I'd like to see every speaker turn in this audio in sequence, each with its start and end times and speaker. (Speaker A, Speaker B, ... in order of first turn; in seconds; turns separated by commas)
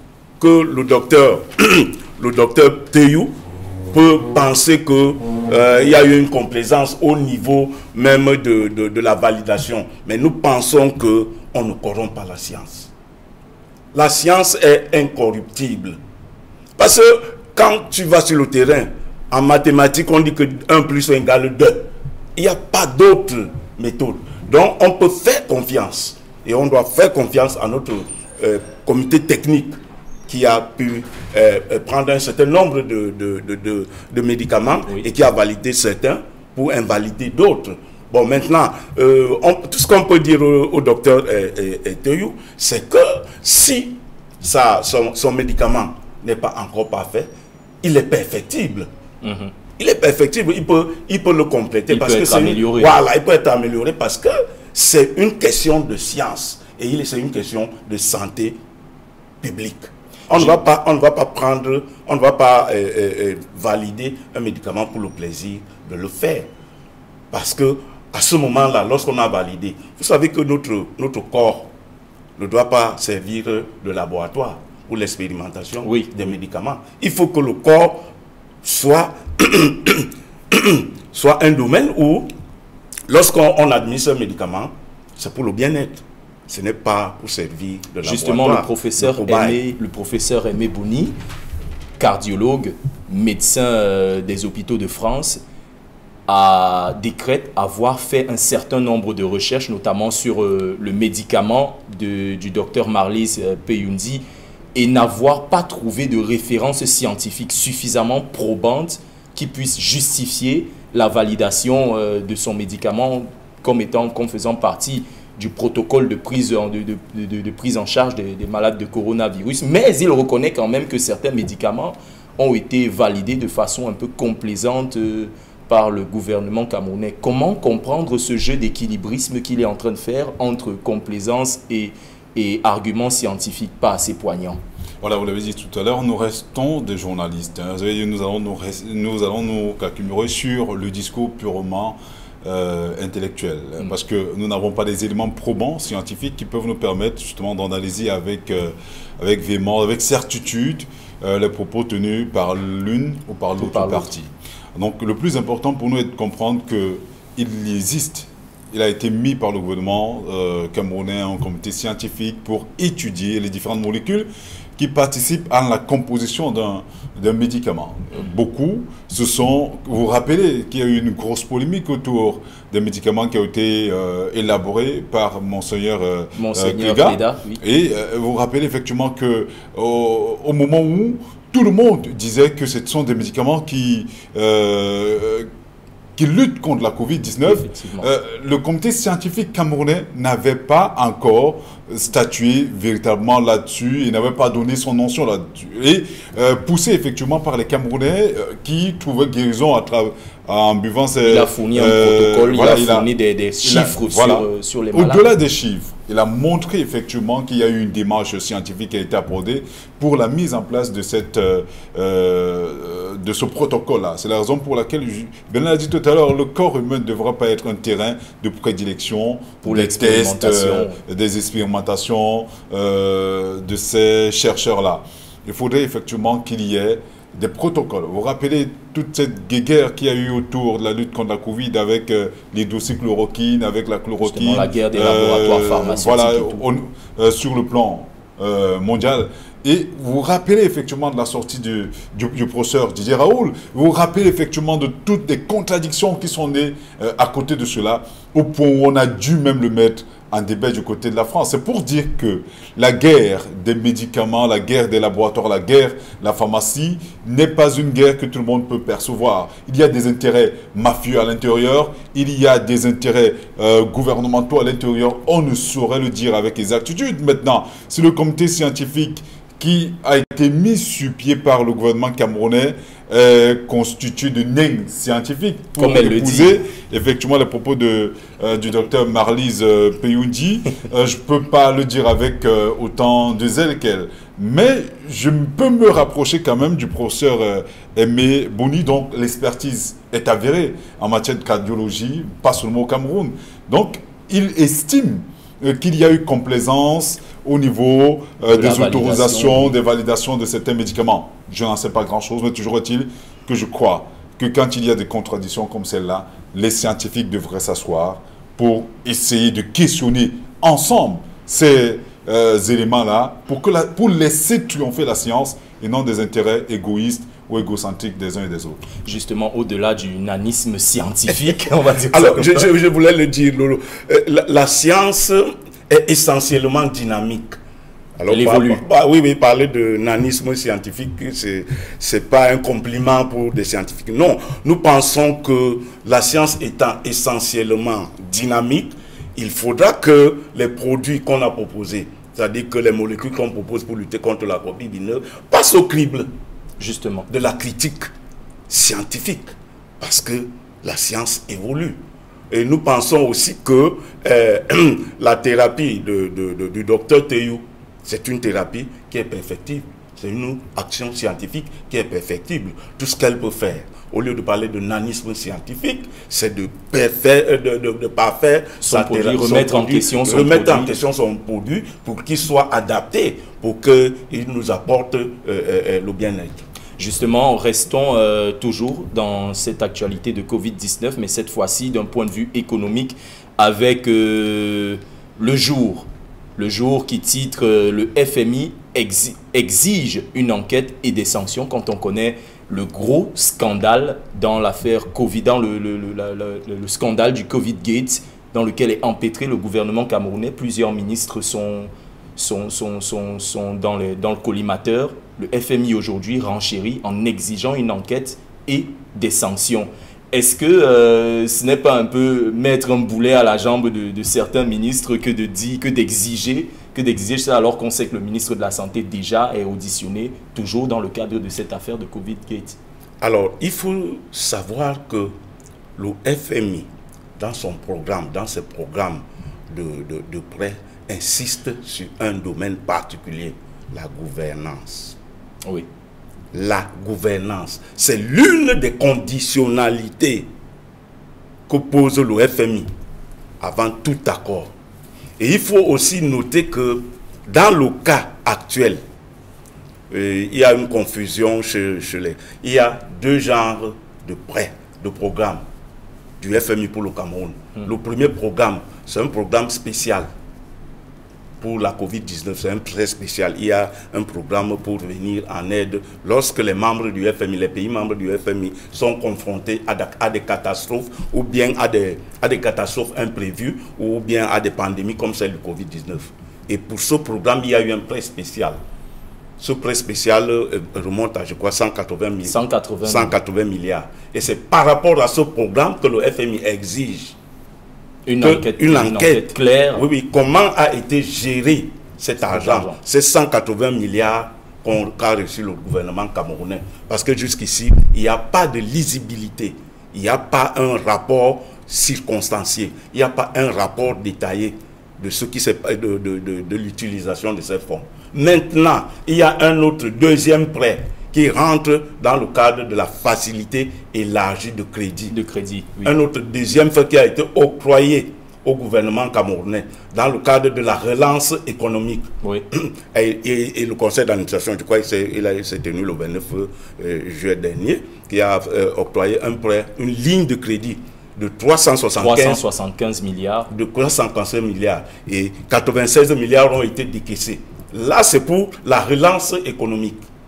Speaker A: 0.4-3.3, Speaker A: 3.9-12.9, Speaker A: 13.9-16.0, Speaker A: 16.8-29.7, Speaker A: 30.3-47.3, Speaker A: 47.8-48.9, Speaker B: 49.2-49.5, Speaker A: 49.8-58.5, Speaker B: 51.9-53.0, Speaker A: 59.4-66.5, Speaker A: 67.3-71.7, Speaker A: 72.4-78.1, Speaker B: 75.8-76.3, Speaker A: 78.6-82.3, Speaker A: 83.1-89.6, Speaker B: 88.0-91.1, Speaker B: 92.0-95.4, Speaker B: 96.3-104.2, Speaker B: 104.7-134.6, Speaker C: 135.0-185.5, Speaker B: 153.6-154.1, Speaker B: 176.3-177.6, Speaker C: 186.2-203.1, Speaker B: 187.4-188.1, Speaker B: 201.2-205.3, Speaker C: 203.6-318.9, Speaker B: 219.6-221.0, Speaker B: 234.2-236.6, Speaker B: 275.8-276.6, Speaker B: 298.5-299.7, Speaker B: 319.0-322.7, Speaker A: 322.1-327.6, Speaker A: 328.2-346.3, Speaker B: 328.3-328.8, Speaker B: 346.8-347.2, Speaker A: 347.3-348.1, Speaker A: 348.7-352.0, Speaker A: 352.5-376.6, Speaker B: 368.8-370.9, Speaker B: 377.0-422.8, Speaker A: 423.2-425.3, Speaker A: 426.0-426.9, Speaker A: 427.4-435.2, Speaker A: 436.5-440.5, Speaker A: 441.7-442.9, Speaker A: 443.6-444.7, Speaker A: 445.4-449.0, Speaker A: 450.1-455.6, Speaker A: 456.4-460.3, Speaker A: 461.6-478.8, Speaker A: 479.6-487.3, Speaker B: 482.4-483.3, Speaker B: 488.2-490.0, Speaker A: 488.4-515.3, Speaker B: 492.4-493.0, Speaker B: 515.3-516.1, Speaker A: 516.0-532.6, Speaker B: 532.2-533.7, Speaker A: 533.7-540.2